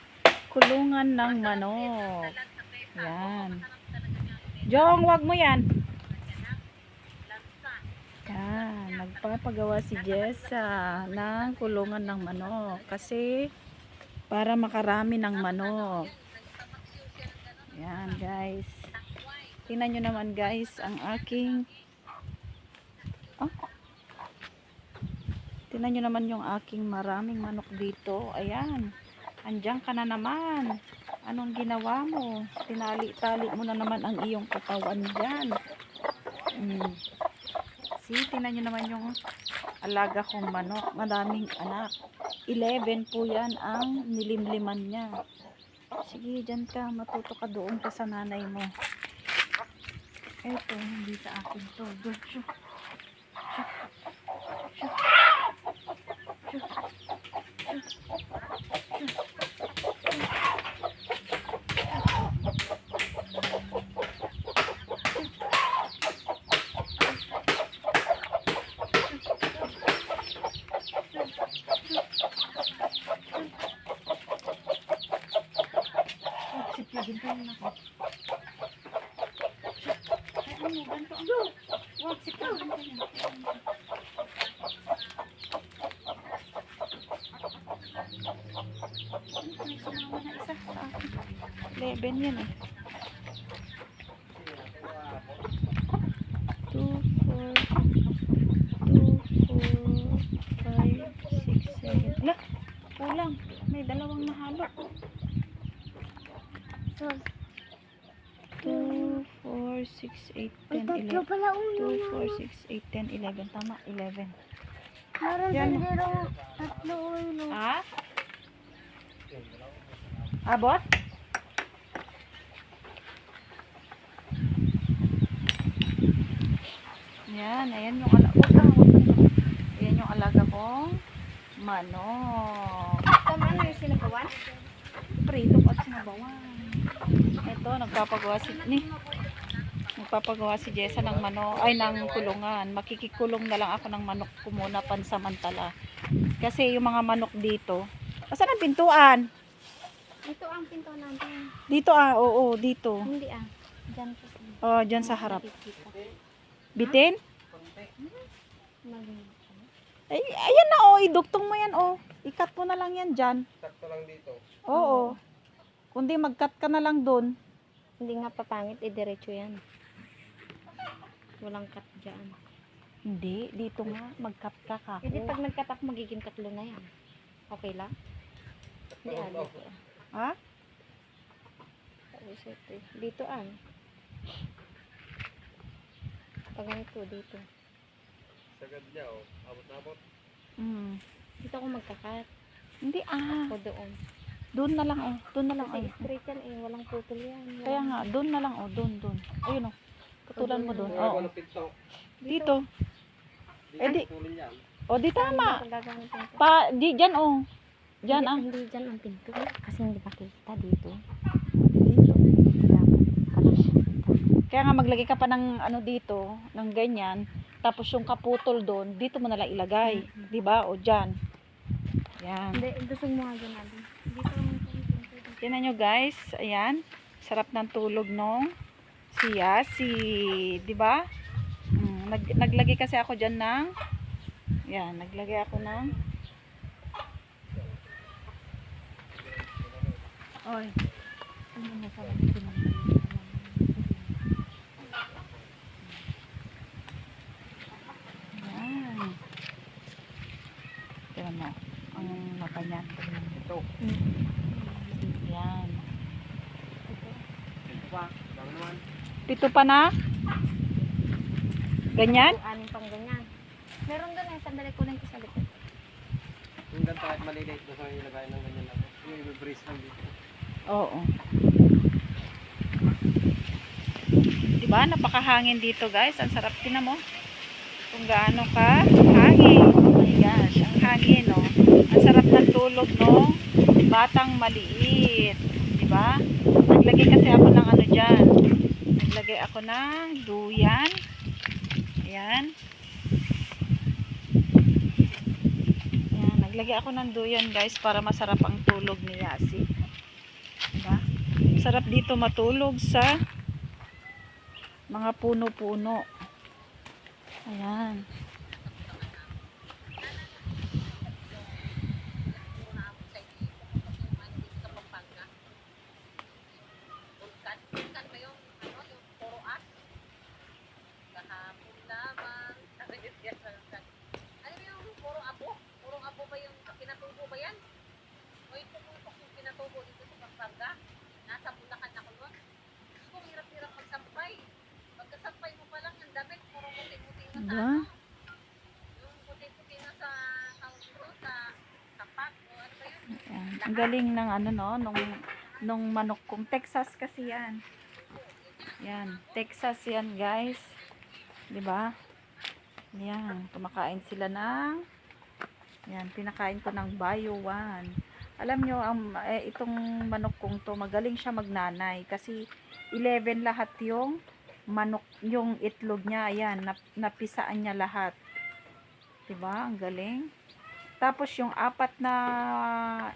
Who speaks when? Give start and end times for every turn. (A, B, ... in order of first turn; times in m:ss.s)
0:00.5-0:02.3 A
0:02.5-0:02.9 B
0:03.0-0:03.6 A
0:03.8-0:04.6 B
0:04.7-0:05.6 A
0:08.3-0:13.3 A
0:14.3-0:16.1 A
0:16.2-0:17.6 B
0:17.7-0:18.7 A
0:19.7-0:21.7 A
0:25.7-0:28.8 A
0:29.5-0:30.7 A
0:31.3-0:35.5 A
0:36.5-0:36.9 A
0:38.0-0:39.0 A
0:39.8-0:41.9 A
0:42.5-0:45.1 A
0:46.0-0:48.7 A
0:50.4-0:52.4 A
0:53.5-0:53.8 A
0:54.7-0:55.0 A
1:16.5-1:17.7 A
1:20.4-1:23.6 A
1:29.4-1:31.1 A
1:31.7-1:32.5 A
1:34.6-1:35.4 C
1:36.7-1:37.7 A
1:38.8-1:42.4 A
1:43.0-1:44.7 A
1:48.6-1:51.2 A
1:48.6-1:49.1 D
1:50.7-1:52.3 D
1:51.8-1:54.3 A
1:55.2-1:57.5 D
1:55.5-1:55.9 A
1:55.7-1:56.1 C
1:57.5-1:57.8 A
1:59.6-2:00.0 C
2:00.5-2:00.8 A
2:07.3-2:10.8 A
2:11.6-2:12.9 A
2:13.2-2:14.4 D
2:15.2-2:16.8 A
2:17.4-2:18.8 A
2:18.4-2:19.2 D
2:20.0-2:25.7 A
2:20.8-2:22.0 D
2:26.4-2:27.8 A
2:28.3-2:29.2 A
2:30.2-2:31.4 D
2:31.7-2:33.0 A
2:33.1-2:36.0 D
2:34.6-2:35.4 A
2:36.8-2:37.2 A
2:37.5-2:38.2 D
2:38.9-2:39.7 D
2:40.1-2:43.4 A
2:43.6-2:44.3 C
2:43.7-2:45.1 D
2:44.7-2:45.0 A
2:45.9-2:47.3 A
2:48.0-2:49.6 D
2:51.4-2:52.4 D
2:53.1-2:55.4 A
2:55.1-2:56.8 D
2:57.5-2:57.9 D
2:58.9-2:59.8 D
2:59.0-2:59.6 C
3:02.1-3:03.5 D
3:06.6-3:07.4 D
3:08.6-3:10.0 C
3:10.6-3:11.0 A
3:11.4-3:12.3 D
3:12.8-3:13.5 A
3:13.5-3:14.0 D
3:14.6-3:16.1 A
3:15.6-3:18.0 D
3:17.6-3:19.7 A
3:20.3-3:21.3 A
3:20.4-3:21.3 D
3:20.9-3:21.7 C
3:22.2-3:22.6 A
3:23.7-3:24.6 D
3:23.8-3:24.1 A
3:23.8-3:24.6 C
3:24.9-3:25.6 A
3:25.2-3:26.4 D
3:26.4-3:27.4 A
3:28.0-3:28.4 A
3:28.1-3:30.9 D
3:31.7-3:32.2 A
3:32.6-3:34.2 D
3:34.5-3:41.1 A
3:39.8-3:40.3 D
3:42.2-3:42.6 A
3:42.6-3:45.5 D
3:45.4-3:48.5 A
3:49.1-3:51.0 A
3:51.8-3:53.7 A
3:54.7-3:55.9 A
3:59.1-4:00.0 C
4:00.4-4:00.7 A
4:01.6-4:04.1 D
4:05.2-4:05.5 C
4:08.3-4:09.2 A
4:11.1-4:13.4 A
4:13.5-4:15.2 D
4:15.2-4:15.9 A
4:16.9-4:18.8 D
4:17.9-4:18.8 C
4:19.3-4:19.8 A
4:21.9-4:22.4 A
4:22.0-4:23.2 D
4:23.9-4:25.6 D
4:26.8-4:30.0 C
4:28.7-4:29.3 D
4:30.7-4:31.0 A
4:34.6-4:37.0 A
4:37.9-4:43.2 A
4:43.9-4:46.1 A
4:46.7-4:48.2 A
4:49.0-4:50.9 A
4:52.1-4:52.5 A
4:56.1-4:59.6 A
5:01.6-5:03.1 A
5:04.9-5:06.0 A
5:07.5-5:08.0 A
5:08.6-5:09.3 B
5:10.0-5:11.6 B
5:12.3-5:15.3 B
5:17.2-5:19.7 B
5:21.1-5:23.8 B
5:24.4-5:27.6 B
5:28.5-5:32.3 B
5:33.0-5:34.4 B
5:35.0-5:37.8 B
5:37.3-5:37.8 A
5:39.0-5:43.0 B
5:43.2-5:45.1 A
5:45.6-5:47.6 A
5:48.1-5:48.8 B
5:48.8-5:50.7 A
5:51.5-5:51.9 A
5:53.0-5:54.8 A
5:55.9-5:57.9 A
5:58.4-6:02.3 A
6:03.0-6:04.1 A
6:04.7-6:08.1 A
6:09.3-6:10.2 A
6:11.0-6:12.2 A